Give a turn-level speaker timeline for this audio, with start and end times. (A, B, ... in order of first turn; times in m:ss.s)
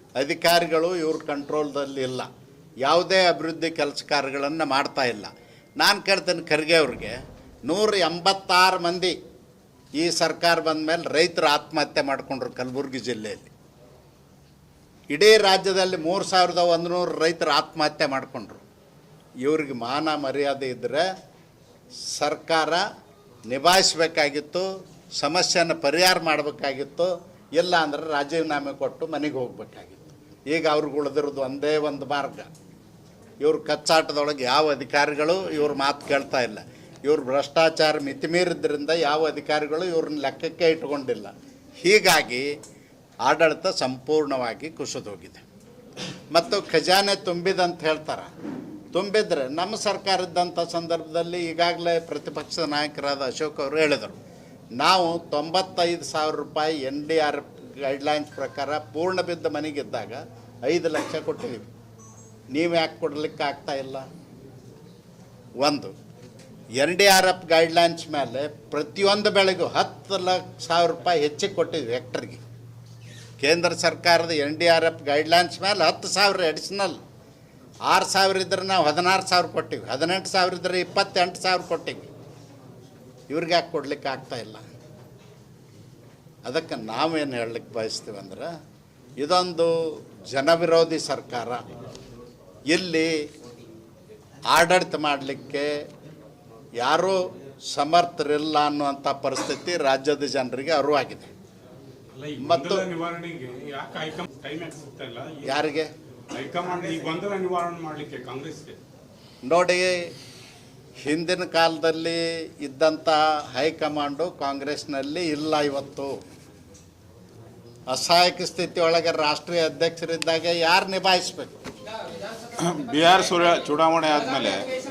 0:00.2-0:02.3 A
0:02.8-0:09.1 A
0:10.0-0:13.5 A
0:15.1-0:18.6 A
0:19.4-0:21.0 A
0:22.1-0:22.8 A
0:23.5-0:32.5 A
0:33.4-0:42.5 A
0:43.2-0:45.4 A
0:46.3-0:48.3 A
0:48.9-0:54.2 A
0:54.8-1:01.7 A
1:02.5-1:04.0 A
1:05.6-1:05.9 A
1:06.8-1:12.4 A
1:13.4-1:17.0 A
1:17.9-1:22.1 A
1:23.3-1:24.6 A
1:26.4-1:28.5 A
1:29.2-1:31.7 A
1:32.7-1:33.1 A
1:34.5-1:35.7 A
1:36.8-1:41.3 A
1:42.1-1:45.6 B
1:42.4-1:42.9 A
1:45.4-1:45.9 A
1:46.3-1:48.8 B
1:49.4-1:50.0 A
1:51.0-1:56.2 A
1:57.9-2:01.6 A
2:02.6-2:04.7 C